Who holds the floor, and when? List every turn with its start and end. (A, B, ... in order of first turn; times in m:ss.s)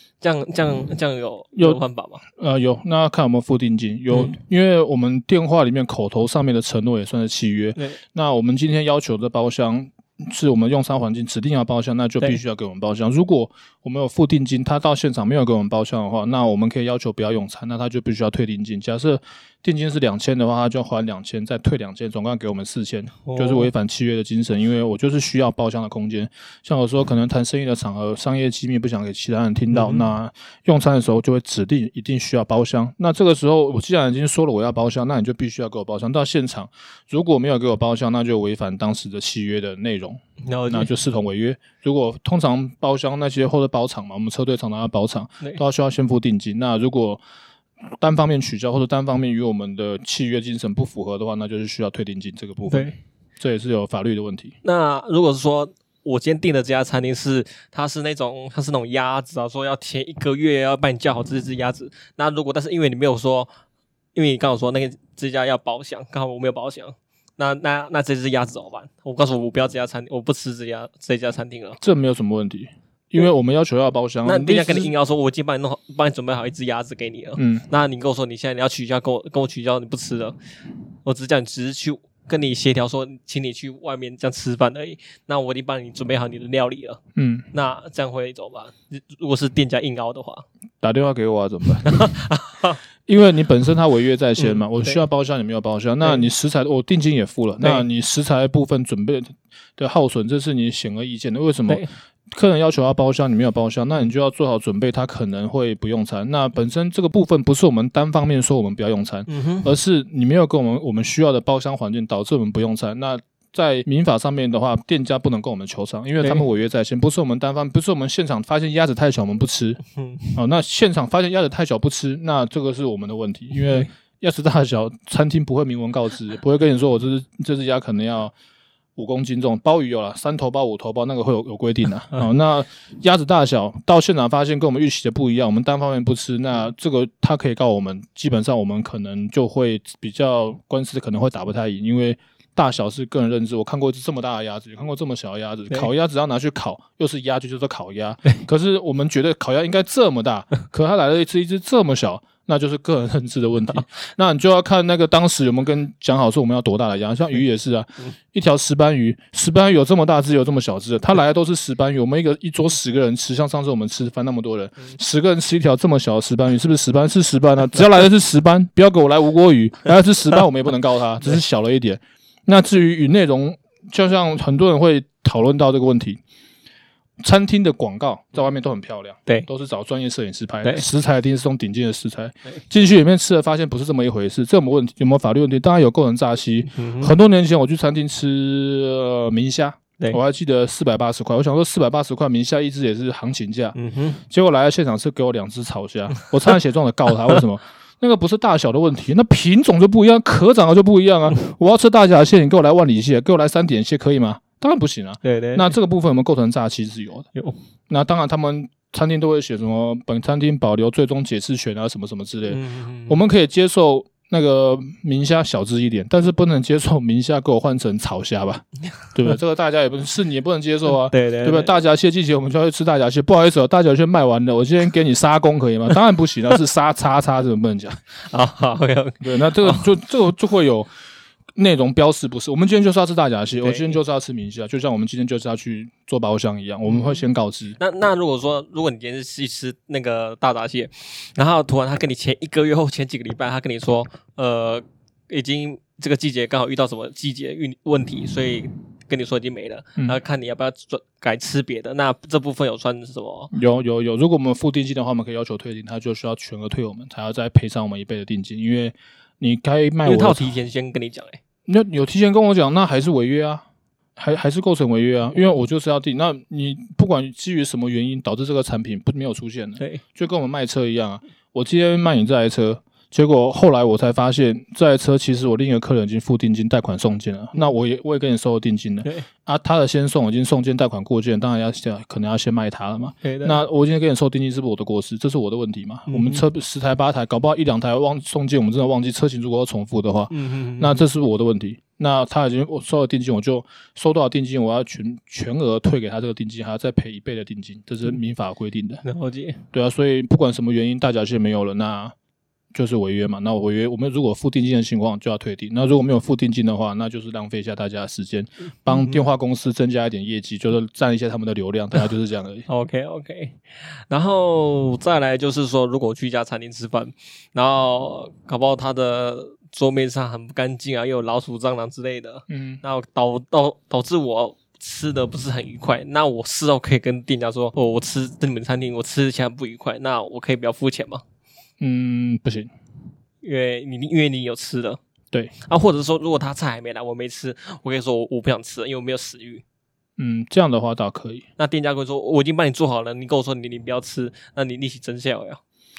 0:00.2-0:02.2 A
0:01.6-0:01.8 B
0:02.4-0:47.2 B
0:04.1-0:04.4 A
0:23.2-0:23.7 A
0:29.7-0:30.1 A
0:40.4-0:40.9 A
0:48.0-0:54.6 B
0:52.6-0:52.9 A
0:54.6-1:03.5 A
1:04.1-1:11.8 A
1:11.8-1:14.9 B
1:14.2-1:20.4 A
1:17.4-1:17.7 B
1:21.0-1:27.0 A
1:27.2-1:27.5 B
1:27.5-1:30.4 A
1:30.8-1:32.1 B
1:31.8-1:32.8 A
1:33.1-1:59.8 B
1:34.4-1:35.0 A
1:49.3-1:49.7 A
2:00.0-2:00.4 A
2:00.3-2:08.3 B
2:03.5-2:03.9 A
2:09.0-2:56.2 B
2:57.2-3:13.8 B
3:06.7-3:07.1 A
3:13.7-3:14.2 A
3:14.3-3:27.3 B
3:25.2-3:25.7 A
3:27.9-3:48.0 B
3:32.5-3:33.2 A
3:41.0-3:41.7 A
3:48.3-3:49.8 A
3:49.2-3:50.9 B
3:51.6-3:57.8 B
3:53.6-3:54.0 A
3:56.9-3:57.2 A
3:57.8-4:13.5 A
4:13.5-4:20.5 B
4:20.0-4:21.4 A
4:21.6-4:23.6 B
4:24.2-4:59.0 B
4:43.2-4:43.6 A
4:46.1-4:46.4 A
4:50.3-4:51.0 A
4:59.0-4:59.6 A
4:59.7-5:02.1 B
5:02.7-5:12.7 B
5:08.9-5:09.2 A
5:12.7-5:31.2 A
5:22.5-5:22.8 B
5:31.8-5:32.7 B
5:33.4-5:35.0 A
5:35.6-5:39.6 A
5:40.2-5:41.4 B
5:41.6-5:45.6 A